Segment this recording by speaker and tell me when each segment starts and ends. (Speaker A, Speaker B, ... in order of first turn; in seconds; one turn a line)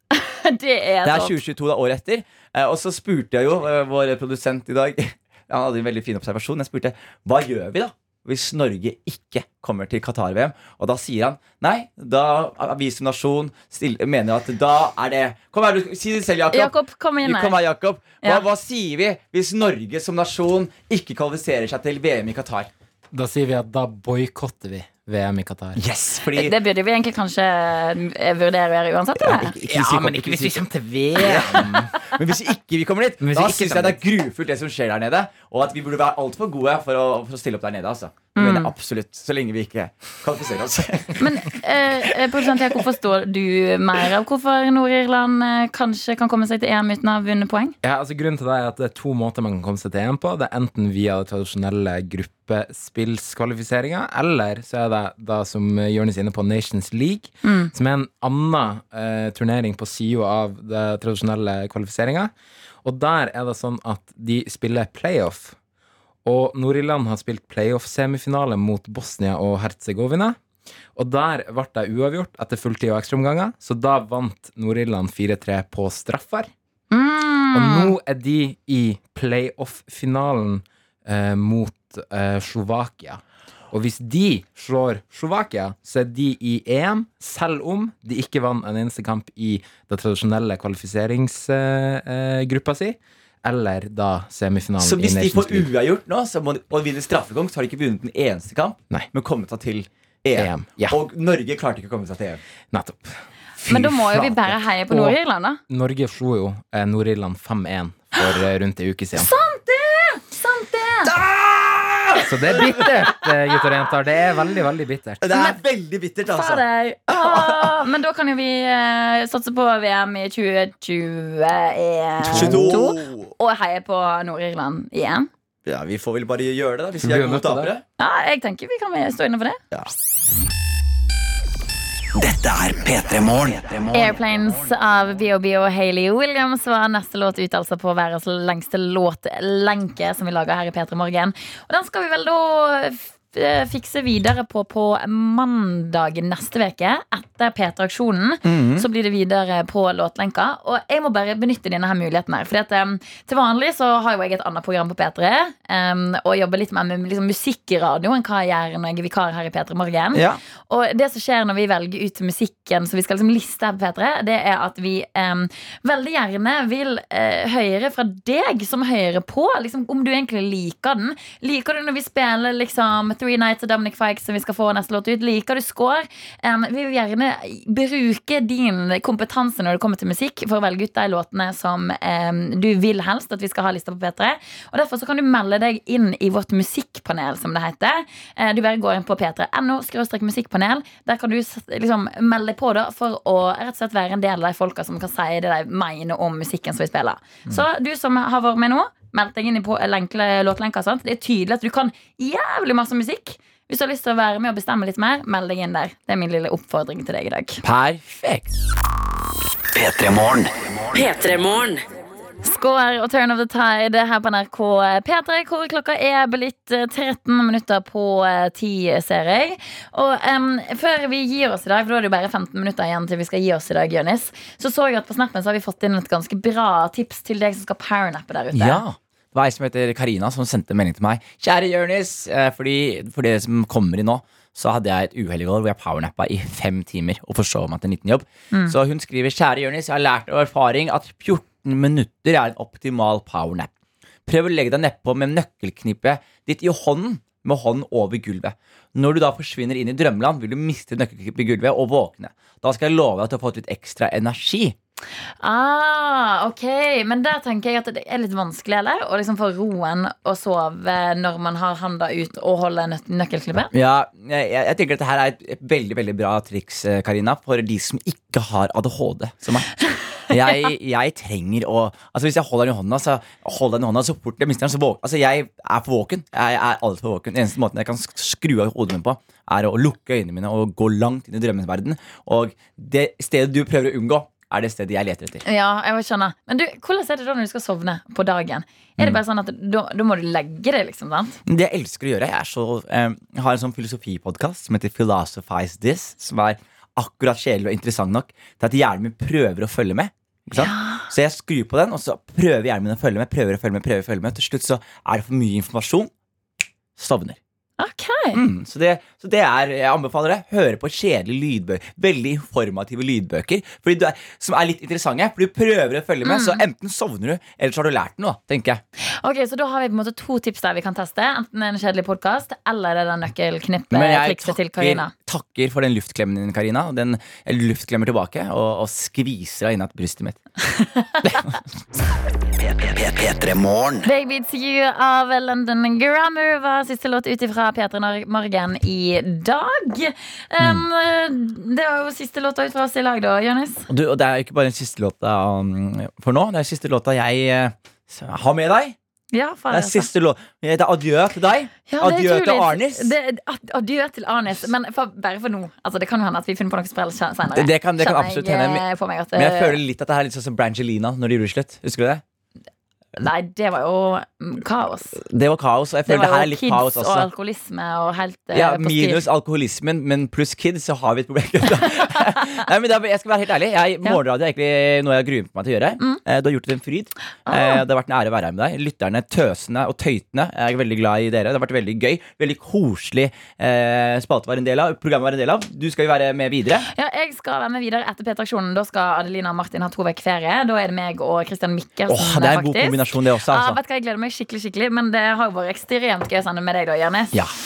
Speaker A: 0.1-1.4
Speaker B: 1.0-22.7
Speaker A: 16.5-17.6
Speaker C: 23.1-25.8
Speaker B: 25.8-26.6
Speaker A: 26.3-29.5
Speaker B: 29.2-41.4
Speaker C: 29.4-32.0
Speaker C: 33.2-34.0
Speaker A: 38.4-38.7
Speaker A: 41.2-47.8
Speaker B: 42.1-42.8
Speaker C: 47.8-62.3
Speaker A: 57.4-57.7
Speaker C: 62.8-65.6
Speaker C: 66.2-70.4
Speaker C: 71.0-76.5
Speaker A: 76.9-78.0
Speaker C: 77.5-83.2
Speaker C: 83.7-95.7
Speaker B: 94.8-102.4
Speaker C: 100.4-101.0
Speaker C: 102.7-105.2
Speaker A: 103.7-105.6
Speaker C: 105.7-109.3
Speaker A: 109.2-111.1
Speaker B: 111.0-112.9
Speaker C: 112.2-115.2
Speaker B: 115.2-117.8
Speaker A: 115.3-115.6
Speaker A: 116.3-125.3
Speaker B: 122.2-123.3
Speaker C: 122.3-122.8
Speaker B: 125.7-127.8
Speaker C: 127.0-127.7
Speaker A: 128.0-129.6
Speaker D: 132.2-134.7
Speaker A: 133.9-207.6
Speaker B: 148.4-148.9
Speaker B: 160.1-160.4
Speaker B: 207.6-208.5
Speaker D: 209.7-211.8
Speaker A: 212.4-228.8
Speaker B: 228.5-243.7
Speaker B: 244.3-254.8
Speaker A: 255.4-263.7
Speaker B: 263.7-269.7
Speaker B: 270.3-285.4
Speaker A: 285.4-291.4
Speaker B: 291.5-306.1
Speaker A: 300.6-301.1
Speaker B: 307.0-307.4
Speaker A: 307.8-308.4
Speaker B: 308.3-318.8
Speaker A: 316.2-316.6
Speaker A: 319.0-325.1
Speaker B: 323.9-330.4
Speaker A: 330.7-331.6
Speaker D: 332.6-334.1
Speaker A: 334.1-343.9
Speaker B: 343.9-349.0
Speaker A: 349.3-350.1
Speaker B: 349.7-353.1
Speaker A: 351.9-359.8
Speaker B: 357.6-362.2
Speaker A: 363.2-365.2
Speaker B: 365.2-367.3
Speaker A: 366.1-369.2
Speaker B: 368.5-386.9
Speaker A: 377.5-377.8
Speaker A: 386.9-397.3
Speaker B: 392.1-393.8